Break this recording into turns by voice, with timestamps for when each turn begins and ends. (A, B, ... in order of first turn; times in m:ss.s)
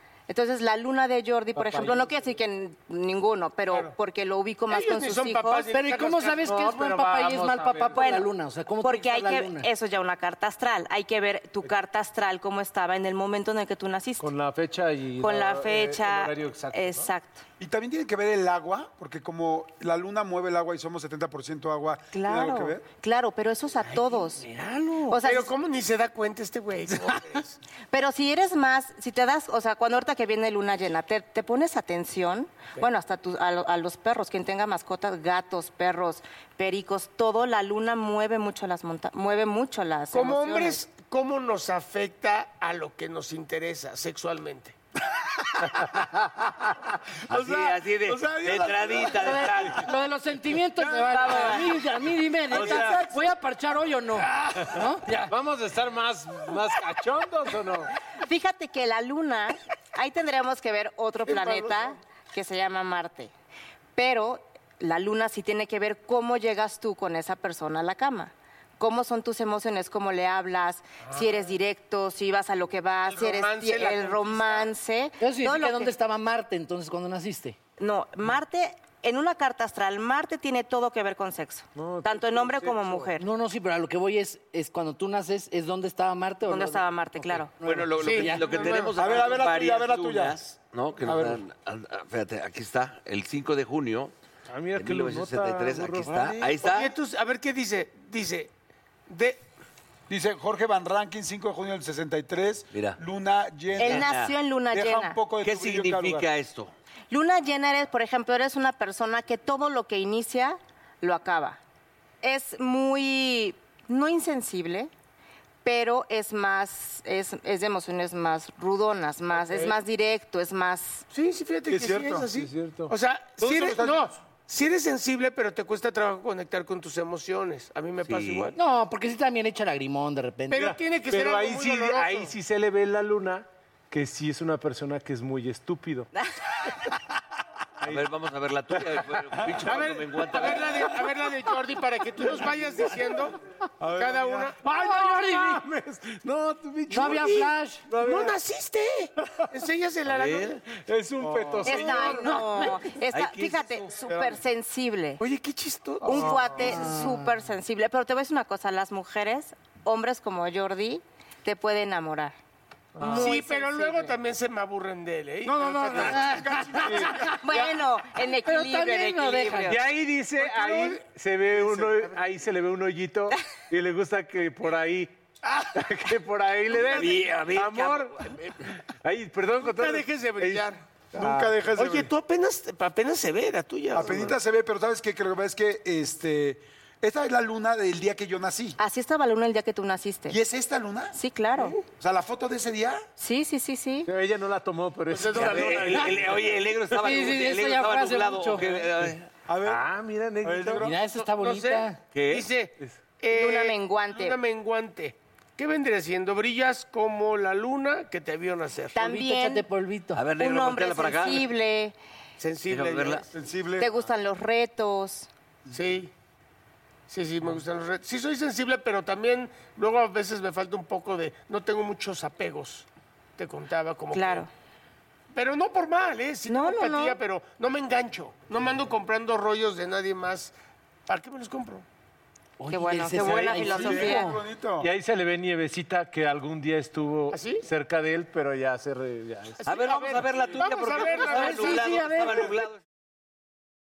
0:00.3-0:05.7 A
0:01.6-0:02.0 B
0:04.7-0:06.8 C
0:05.7-0:09.7 D
0:06.5-0:08.0 B
0:07.9-0:08.3 A
0:08.8-0:14.3 A
0:14.2-0:17.1 B
0:15.2-0:17.4 A
0:17.6-0:22.8 E
0:22.1-0:24.5 A
0:24.5-0:25.1 D
0:25.1-0:25.5 A
0:25.2-0:27.6 C
0:27.9-0:40.8 A
0:40.1-0:44.8 C
0:45.7-0:46.5 B
0:47.3-0:49.9 F
0:47.3-0:49.5 E
0:49.2-0:55.3 D
0:52.5-0:53.1 B
0:52.5-0:53.3 E
0:54.4-0:57.9 B
0:58.2-1:03.3 A
1:01.3-1:01.8 C
1:04.0-1:15.9 A
1:11.0-1:11.5 C
1:13.1-1:14.7 C
1:15.2-1:17.6 D
1:17.8-1:23.3 A
1:21.8-1:23.1 B
1:23.2-1:28.9 D
1:26.5-1:27.5 A
1:27.6-1:34.1 F
1:28.0-1:28.9 C
1:29.0-1:30.4 E
1:31.0-1:31.4 E
1:34.5-1:36.4 B
1:34.7-1:36.9 F
1:36.1-1:36.5 E
1:36.6-1:38.5 C
1:39.1-1:39.4 C
1:40.1-1:44.1 E
1:42.7-1:43.0 F
1:43.8-1:45.3 A
1:43.8-1:44.3 F
1:44.7-1:46.3 E
1:45.4-1:46.7 F
1:47.1-1:51.6 A
1:52.2-1:54.9 A
1:55.6-2:01.1 A
1:59.3-1:59.8 C
2:01.1-2:08.6 C
2:01.7-2:02.3 E
2:02.3-2:02.9 B
2:03.4-2:04.1 E
2:08.0-2:08.6 F
2:08.6-2:10.7 D
2:10.5-2:12.3 C
2:10.7-2:16.1 B
2:17.8-2:18.1 B
2:17.8-2:20.9 F
2:18.8-2:20.0 B
2:19.6-2:23.4 C
2:23.8-2:24.5 E
2:24.0-2:24.6 C
2:24.6-2:28.4 B
2:24.7-2:25.6 D
2:26.9-2:27.9 D
2:27.0-2:30.6 C
2:30.0-2:30.6 F
2:30.7-2:32.4 B
2:31.2-2:32.1 E
2:31.6-2:35.2 A
2:33.1-2:34.2 F
2:35.2-2:36.6 C
2:36.0-2:36.6 B
2:36.0-2:42.4 A
2:36.6-2:37.2 D
2:43.0-2:44.2 A
2:43.0-2:47.0 C
2:45.4-2:47.6 E
2:46.2-2:47.1 D
2:47.4-2:49.8 A
2:48.4-2:49.8 D
2:49.7-2:55.1 B
2:50.4-2:51.0 C
2:51.5-2:52.2 C
2:55.7-2:58.2 B
2:56.7-2:57.2 C
2:56.8-2:58.4 F
2:59.0-3:01.6 B
2:59.6-3:00.8 C
3:01.1-3:02.1 E
3:01.8-3:04.4 C
3:03.9-3:08.8 E
3:08.8-3:10.4 A
3:10.3-3:11.2 E
3:11.1-3:11.8 A
3:11.8-3:13.0 E
3:13.2-3:14.1 A
3:14.1-3:16.4 B
3:15.1-3:16.0 C
3:15.3-3:19.3 F
3:16.9-3:18.8 D
3:19.5-3:19.9 E
3:19.6-3:20.9 B
3:20.4-3:20.9 E
3:20.8-3:22.0 D
3:21.2-3:29.0 C
3:22.1-3:22.5 F
3:23.3-3:24.4 A
3:29.0-3:29.7 A
3:29.0-3:30.2 D
3:30.2-3:31.5 F
3:30.3-3:32.0 A
3:32.4-3:33.3 C
3:32.7-3:33.2 F
3:33.3-3:33.9 E
3:33.8-3:35.3 A
3:35.7-3:36.1 C
3:37.1-3:42.9 C
3:43.4-3:44.4 C
3:44.1-3:44.5 A
3:45.3-3:50.5 C
3:46.5-3:47.2 A
3:51.1-3:51.8 C
3:52.6-3:54.4 D
3:52.7-3:54.3 A
3:53.3-3:54.9 E
3:54.8-4:00.2 B
3:57.3-3:57.7 C
3:59.6-4:02.8 F
3:59.7-4:02.0 C
4:00.7-4:01.5 B
4:01.3-4:02.5 D